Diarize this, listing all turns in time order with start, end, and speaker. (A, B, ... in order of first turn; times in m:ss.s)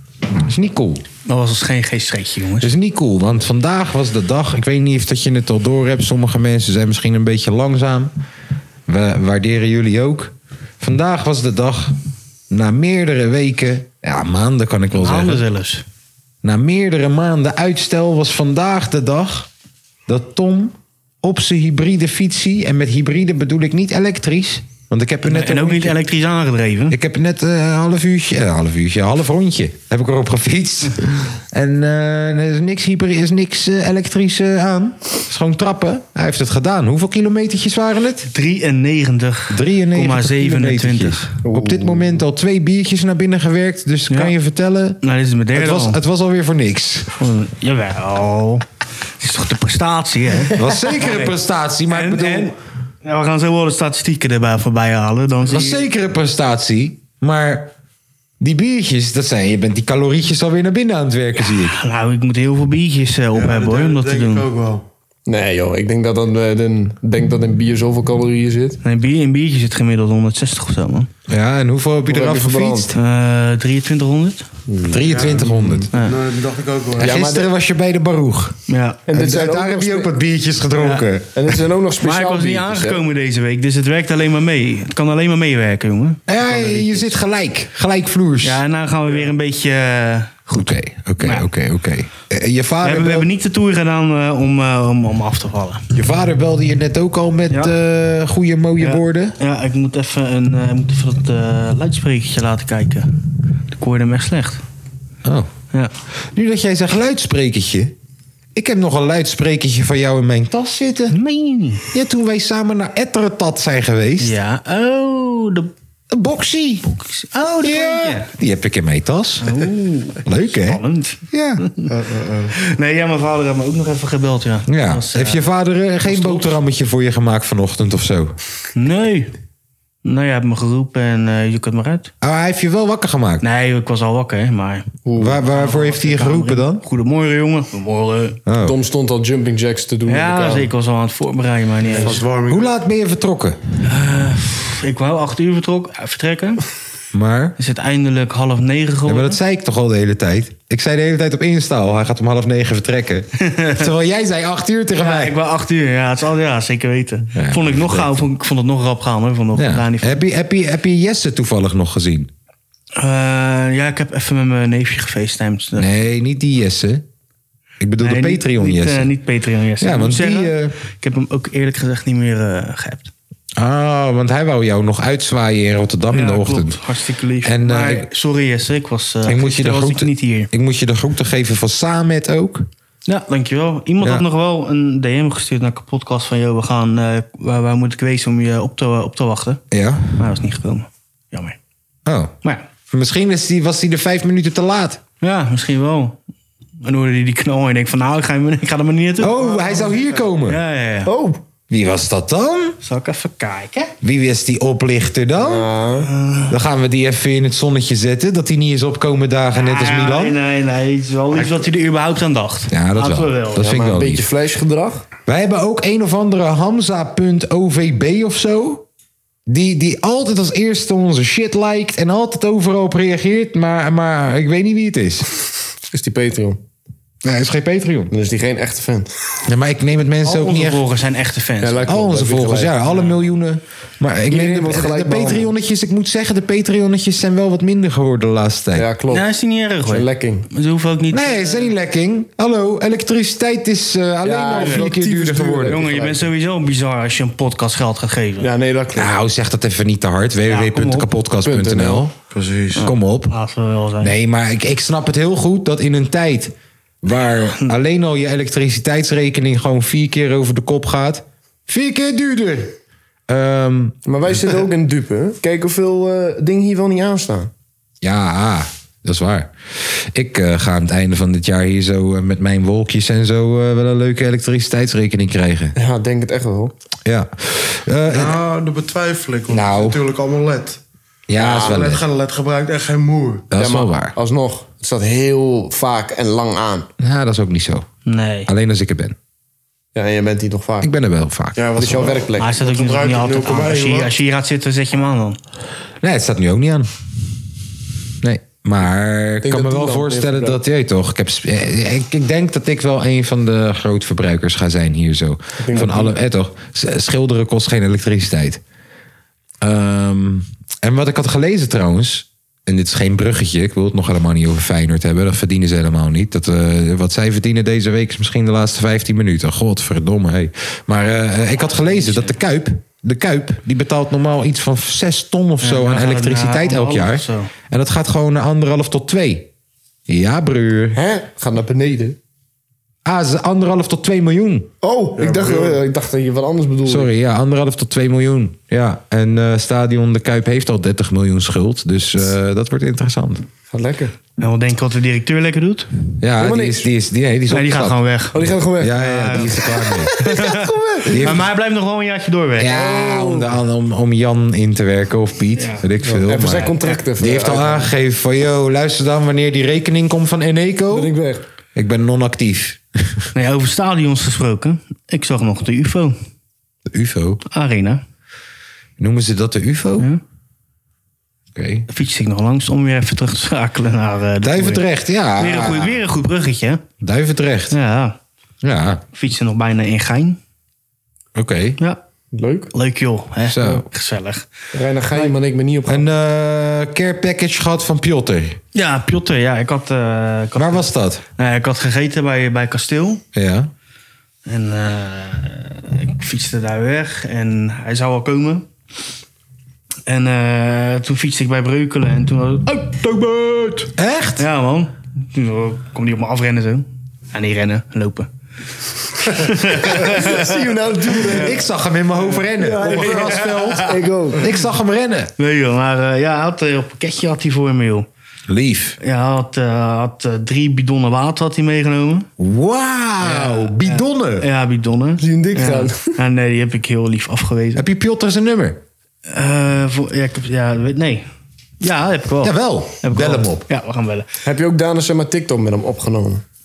0:00.4-0:01.0 A
0:01.3-0:02.7 B
0:02.6-0:08.1 A
0:08.9-0:12.0 A
0:12.5-0:15.4 A
0:14.9-0:15.8 B
0:16.4-0:19.5 A
0:20.1-0:26.0 A
0:25.2-0:27.0 B
0:26.9-0:38.3 A
0:38.3-0:41.3 B
0:39.5-0:45.0 A
0:41.4-0:42.2 C
0:44.1-0:44.4 B
0:45.0-0:46.0 B
0:45.5-0:47.1 A
0:47.2-0:48.7 B
0:49.2-0:51.4 B
0:50.5-0:52.5 A
0:51.9-0:55.9 B
0:55.5-0:57.7 A
0:58.4-1:01.8 A
1:01.4-1:04.5 B
1:03.3-1:04.8 D
1:05.3-1:08.8 C
1:08.8-1:11.1 B
1:11.3-1:12.9 A
1:12.1-1:12.9 C
1:12.9-1:14.4 B
1:14.7-1:15.2 C
1:14.9-1:15.9 A
1:15.0-1:17.2 D
1:17.0-1:17.5 C
1:17.0-1:18.6 A
1:18.7-1:19.1 B
1:19.1-1:20.1 C
1:19.1-1:21.3 A
1:20.8-1:21.1 B
1:21.3-1:23.0 C
1:22.0-1:27.1 B
1:26.3-1:28.6 A
1:28.4-1:31.5 B
1:30.5-1:33.3 A
1:32.8-1:35.8 B
1:35.9-1:39.4 A
1:38.8-1:43.1 B
1:43.7-1:44.6 B
1:45.2-1:45.5 A
1:46.3-1:48.0 A
1:48.6-1:51.2 A
1:51.1-1:51.8 B
1:51.9-1:54.4 A
1:54.2-1:55.7 B
1:56.1-1:56.8 A
1:56.9-1:58.3 B
1:57.6-1:59.6 A
1:59.4-2:01.9 B
2:00.2-2:01.6 A
2:01.9-2:02.6 D
2:02.6-2:05.5 B
2:04.7-2:08.4 A
2:06.0-2:06.6 B
2:08.8-2:09.3 B
2:10.0-2:12.1 B
2:12.2-2:13.4 A
2:13.4-2:18.4 B
2:15.0-2:15.4 C
2:15.2-2:16.8 A
2:18.5-2:18.8 A
2:18.6-2:20.7 C
2:20.1-2:22.2 B
2:22.0-2:22.7 D
2:22.5-2:23.6 A
2:23.8-2:26.6 B
2:27.1-2:27.6 A
2:27.6-2:29.4 B
2:29.1-2:35.4 A
2:33.4-2:33.9 B
2:35.0-2:40.2 B
2:37.4-2:38.1 A
2:39.5-2:42.3 A
2:43.0-2:45.9 B
2:45.8-2:47.1 A
2:47.8-2:49.1 A
2:48.0-2:53.1 B
2:49.8-2:50.7 A
2:53.6-2:56.8 A
2:56.1-3:00.5 B
2:57.4-2:58.1 A
2:59.2-3:02.7 A
3:03.1-3:09.6 B
3:04.0-3:04.3 A
3:09.7-3:10.2 A
3:10.2-3:11.6 B
3:12.1-3:12.3 A
3:12.9-3:15.0 A
3:15.2-3:16.2 B
3:16.8-3:19.4 B
3:19.2-3:20.6 A
3:19.6-3:20.0 D
3:20.4-3:21.1 B
3:21.1-3:21.4 C
3:21.7-3:22.8 A
3:22.8-3:23.9 B
3:24.0-3:25.7 A
3:25.4-3:26.1 C
3:26.0-3:26.6 B
3:26.5-3:30.4 A
3:29.5-3:33.7 B
3:32.7-3:34.3 A
3:33.6-3:35.1 C
3:35.3-3:38.9 A
3:39.5-3:45.3 A
3:45.9-3:46.6 C
3:47.2-3:48.1 A
3:48.1-3:49.1 C
3:49.5-3:50.8 A
3:50.2-3:51.9 B
3:51.6-3:52.8 C
3:51.9-3:58.9 A
3:52.9-3:53.1 B
3:54.3-3:55.5 C
3:58.8-3:59.3 C
3:59.1-4:01.7 B
3:59.9-4:00.5 C
4:01.1-4:05.8 A
4:04.2-4:06.3 C
4:04.6-4:04.9 B
4:05.7-4:08.5 B
4:08.4-4:09.1 C
4:09.0-4:12.1 A
4:10.5-4:11.1 B
4:11.4-4:12.0 C
4:12.3-4:12.9 D
4:12.8-4:13.3 A
4:12.8-4:14.1 B
4:14.0-4:22.8 A
4:23.3-4:24.0 A
4:24.1-4:27.5 C
4:28.0-4:35.8 A
4:35.8-4:36.7 C
4:37.1-4:38.4 A
4:38.1-4:40.8 D
4:39.5-4:40.0 A
4:41.3-4:42.0 A
4:41.4-4:43.5 D
4:41.4-4:41.8 C
4:43.5-4:44.2 A
4:43.6-4:46.9 C
4:47.0-4:47.9 A
4:48.1-4:48.5 B
4:48.5-4:49.2 A
4:50.0-4:50.9 C
4:50.8-4:51.7 A
4:51.6-4:54.2 D
4:51.8-4:52.5 C
4:52.4-4:55.4 B
4:56.0-4:56.9 A
4:58.2-5:08.6 A
4:59.4-5:00.6 C
5:05.6-5:06.2 C
5:09.6-5:29.5 A
5:21.6-5:22.4 B
5:25.6-5:27.5 B
5:30.1-5:31.0 A
5:30.9-5:32.2 C
5:33.0-5:34.7 A
5:34.8-5:37.1 C
5:35.2-5:35.8 D
5:36.9-5:43.5 A
5:43.7-5:44.1 C
5:44.4-5:45.9 B
5:46.2-5:48.0 A
5:46.4-5:46.9 C
5:47.5-5:48.4 B
5:48.3-5:51.3 C
5:48.8-5:50.2 A
5:48.9-5:52.8 B
5:51.1-5:51.5 A
5:52.6-6:01.1 A
5:52.7-5:53.6 C
5:55.6-5:55.9 B
5:56.0-5:57.9 C
5:56.6-5:57.0 B
6:00.9-6:01.4 C
6:01.8-6:03.2 A
6:03.3-6:06.2 B
6:06.9-6:07.4 A
6:07.5-6:08.0 B
6:09.0-6:10.1 A
6:11.6-6:11.9 A
6:11.9-6:14.8 B
6:14.4-6:16.0 A
6:15.4-6:16.8 B
6:17.0-6:17.8 A
6:17.7-6:18.2 B
6:18.6-6:19.0 A
6:19.1-6:20.4 B
6:21.4-6:21.8 A
6:22.3-6:22.7 C
6:22.7-6:24.5 B
6:23.5-6:23.8 A
6:24.7-6:26.0 C
6:25.9-6:28.6 A
6:28.7-6:33.2 B
6:30.6-6:31.2 A
6:33.3-6:33.7 A
6:34.5-6:38.7 B
6:40.1-6:43.2 B
6:44.0-6:44.4 A
6:44.4-6:48.3 B
6:49.2-6:50.6 B
6:49.9-6:51.6 C
6:51.1-6:51.6 B
6:51.3-6:55.3 A
6:52.6-6:54.5 C
6:52.8-6:53.8 B
6:55.4-6:58.1 B
6:58.5-6:59.0 A
6:59.0-7:02.3 B
7:02.4-7:04.5 A
7:03.2-7:07.8 B
7:05.2-7:06.1 C
7:07.8-7:08.8 A
7:09.3-7:11.3 B
7:11.8-7:14.3 B
7:12.4-7:13.7 A
7:14.4-7:16.4 C